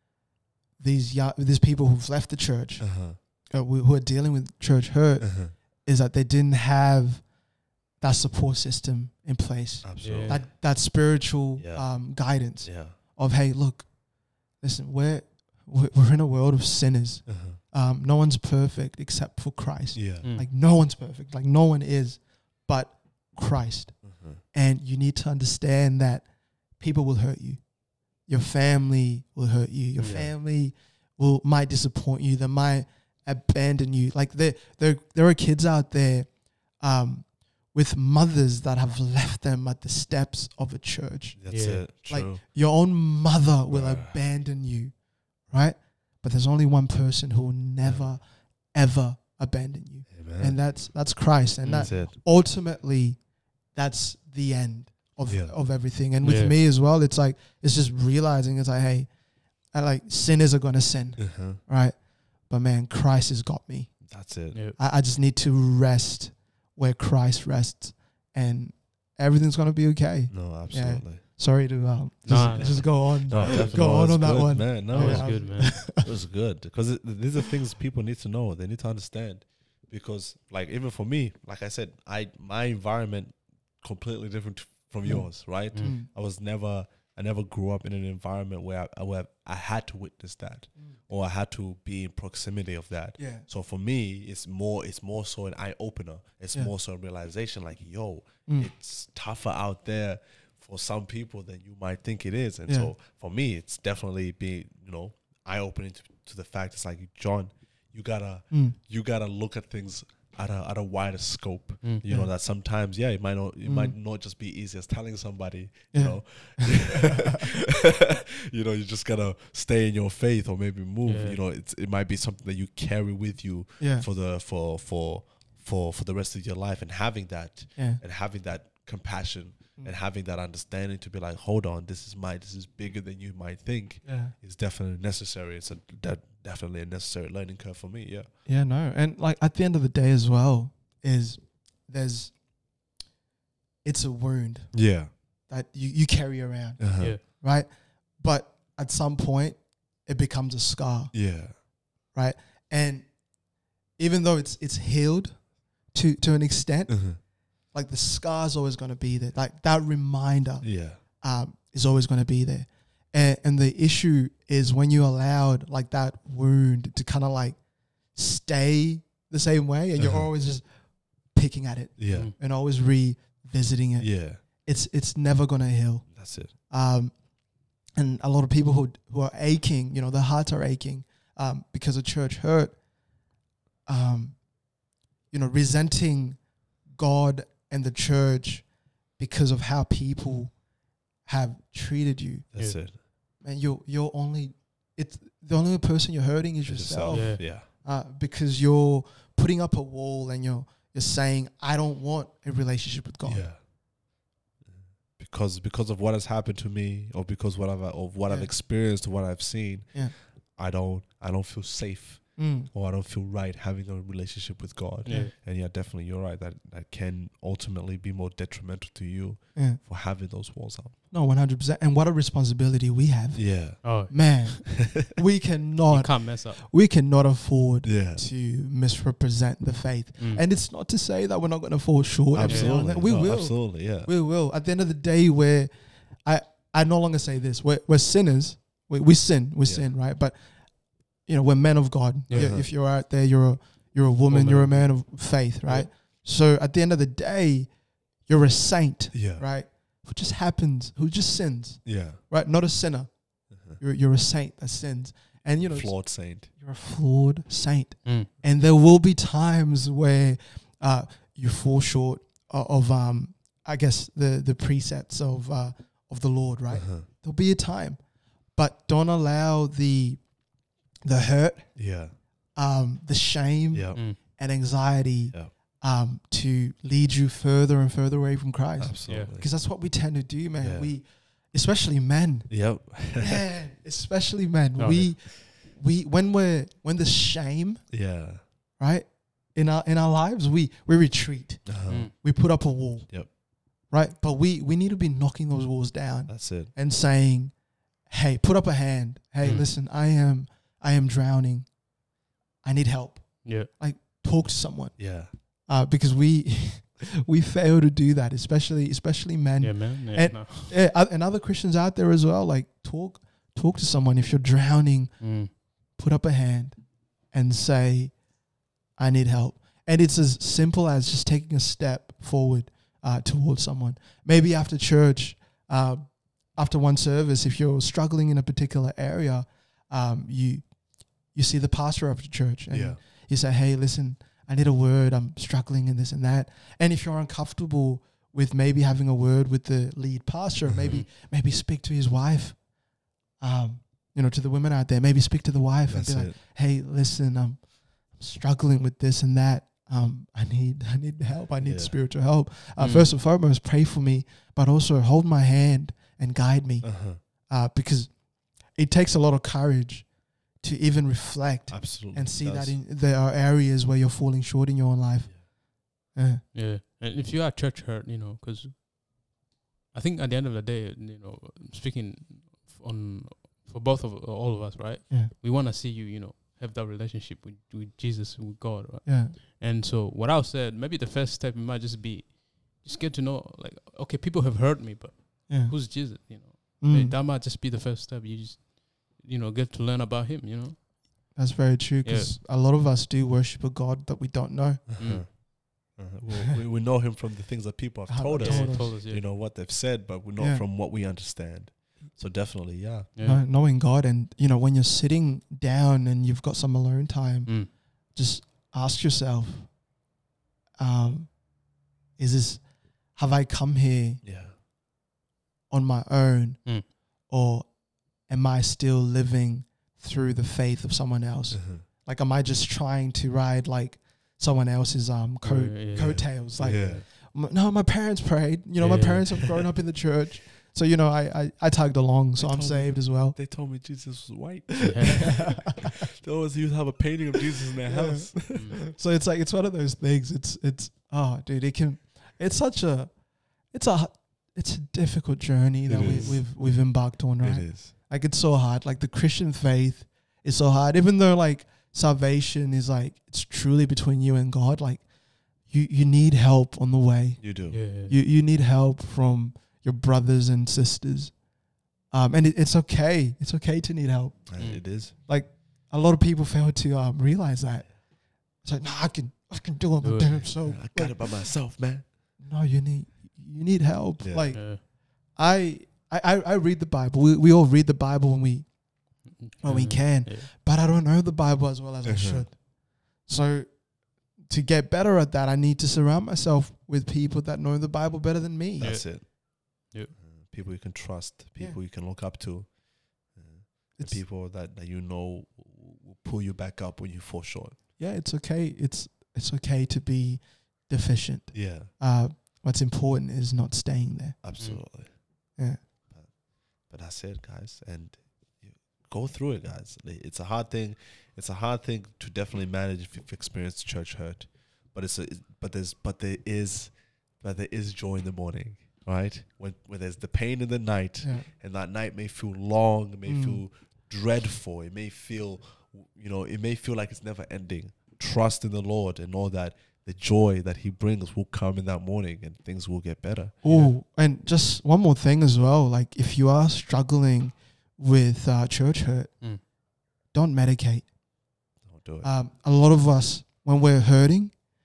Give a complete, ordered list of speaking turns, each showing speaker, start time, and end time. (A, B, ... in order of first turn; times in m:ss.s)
0:00.8-0:07.3 A
0:02.8-0:03.2 B
0:05.2-0:05.5 B
0:08.0-0:13.9 A
0:09.8-0:10.6 B
0:10.0-0:10.5 C
0:11.6-0:13.0 B
0:14.6-0:27.7 A
0:17.3-0:17.6 B
0:19.9-0:20.3 B
0:20.2-0:20.5 C
0:24.0-0:24.4 B
0:28.2-0:53.2 A
0:30.0-0:30.3 B
0:41.4-0:42.4 B
0:41.5-0:41.8 C
0:43.7-0:44.2 B
0:47.8-0:48.1 B
0:50.1-0:50.8 B
0:51.6-0:51.9 C
0:51.7-0:52.2 B
0:53.7-0:59.1 A
0:55.3-0:55.6 B
0:56.2-0:56.5 C
0:59.7-1:04.2 A
1:01.2-1:01.6 B
1:04.0-1:04.6 B
1:04.5-1:04.8 C
1:04.8-1:16.0 A
1:10.3-1:11.2 B
1:12.2-1:14.1 C
1:12.3-2:18.3 B
1:14.6-1:15.7 C
1:25.0-1:26.1 A
1:33.2-1:33.4 A
1:38.4-1:38.7 A
1:42.7-1:42.9 A
1:48.5-1:48.8 A
1:53.6-1:53.9 A
1:55.9-1:57.4 A
2:01.0-2:01.4 C
2:03.8-2:04.0 A
2:07.8-2:08.0 A
2:14.0-2:14.3 A
2:18.4-2:22.4 A
2:23.8-2:31.4 A
2:24.7-2:25.1 B
2:26.8-2:27.2 B
2:31.1-2:31.6 B
2:32.1-2:33.2 A
2:34.0-2:47.6 A
2:36.9-2:37.2 B
2:40.6-2:41.0 B
2:48.1-2:57.2 A
2:50.0-2:50.2 B
2:52.0-2:52.3 B
2:54.0-2:54.4 B
2:56.1-2:56.5 B
2:58.0-3:02.8 A
3:03.8-3:04.5 A
3:05.3-3:10.6 A
3:11.2-3:23.5 A
3:12.5-3:13.0 B
3:16.6-3:17.7 B
3:17.1-3:17.4 C
3:23.2-3:23.7 B
3:24.6-3:40.9 B
3:28.3-3:28.5 A
3:32.4-3:32.7 A
3:35.0-3:35.3 C
3:35.1-3:35.3 A
3:39.5-3:39.8 A
3:41.1-4:07.7 A
3:43.3-3:43.9 B
3:43.8-3:44.8 C
3:45.9-3:46.6 C
3:47.8-3:48.2 B
3:52.3-3:54.1 B
3:52.4-3:52.8 C
3:59.6-3:59.9 B
4:02.3-4:02.6 C
4:02.3-4:02.7 B
4:04.3-4:05.0 C
4:08.2-4:28.0 A
4:09.1-4:09.5 B
4:11.8-4:12.2 B
4:13.5-4:13.8 B
4:15.6-4:16.5 B
4:18.0-4:18.3 C
4:26.7-4:27.1 B
4:28.5-4:30.3 A
4:31.0-4:32.0 A
4:31.7-4:32.1 B
4:32.5-4:48.0 A
4:33.7-4:34.0 B
4:38.8-4:39.5 B
4:39.1-4:39.3 C
4:40.6-4:40.9 B
4:42.5-4:43.4 B
4:44.8-4:45.2 C
4:47.9-4:48.4 B
4:48.8-5:01.8 A
4:51.6-4:52.3 B
4:51.9-4:52.1 C
4:56.3-4:56.7 B
5:02.6-5:18.2 A
5:03.4-5:03.7 C
5:05.0-5:05.3 B
5:09.6-5:10.7 C
5:15.2-5:15.5 C
5:19.0-5:30.7 A
5:31.3-5:42.6 A
5:32.7-5:33.0 B
5:40.7-5:41.0 B
5:43.4-6:06.4 A
5:45.9-5:46.4 B
5:51.6-5:51.9 B
5:52.8-5:53.1 C
5:56.8-5:57.2 B
6:01.7-6:02.8 B
6:06.5-6:08.8 C
6:09.9-6:30.8 C
6:19.0-6:19.4 A
6:25.5-6:26.2 A
6:26.8-6:27.2 A
6:31.3-6:34.8 A
6:32.0-6:32.4 C
6:34.9-6:43.1 B
6:35.0-6:35.2 C
6:38.1-6:38.9 A
6:38.4-6:39.2 C
6:40.4-6:40.6 A
6:43.2-6:43.4 C
6:43.2-6:49.8 A
6:47.5-6:47.7 C
6:50.8-6:51.4 A
6:52.2-6:54.2 A
6:54.2-6:54.6 B
6:55.7-7:13.4 A
7:01.5-7:01.8 B
7:05.4-7:07.0 C
7:05.9-7:07.0 B
7:08.8-7:09.6 C
7:12.4-7:18.8 B
7:14.8-7:15.9 A
7:14.9-7:15.4 C
7:17.8-7:35.1 A
7:18.5-7:18.8 C
7:25.9-7:27.9 B
7:26.0-7:26.4 C
7:35.6-7:41.4 A
7:37.4-7:37.8 B
7:37.7-7:38.1 C
7:42.1-8:08.9 A
7:44.5-7:45.1 B
7:44.6-7:44.8 C
7:50.0-7:50.5 C
7:50.6-7:52.1 B
7:54.2-7:54.6 B
7:54.5-7:54.8 C
7:59.3-8:00.5 C
8:02.0-8:02.5 B
8:08.8-8:09.3 B
8:08.8-8:10.2 C
8:10.1-8:17.8 B
8:13.9-8:14.2 A
8:18.0-8:24.4 A
8:21.5-8:21.9 B
8:24.4-8:25.2 B
8:25.6-8:25.8 A
8:26.1-8:53.6 B
8:41.2-8:41.5 A
8:43.2-8:43.6 A
8:53.6-8:59.7 A
8:53.6-8:53.9 C
9:00.3-9:01.1 A
9:01.8-9:02.3 B
9:02.2-9:04.6 A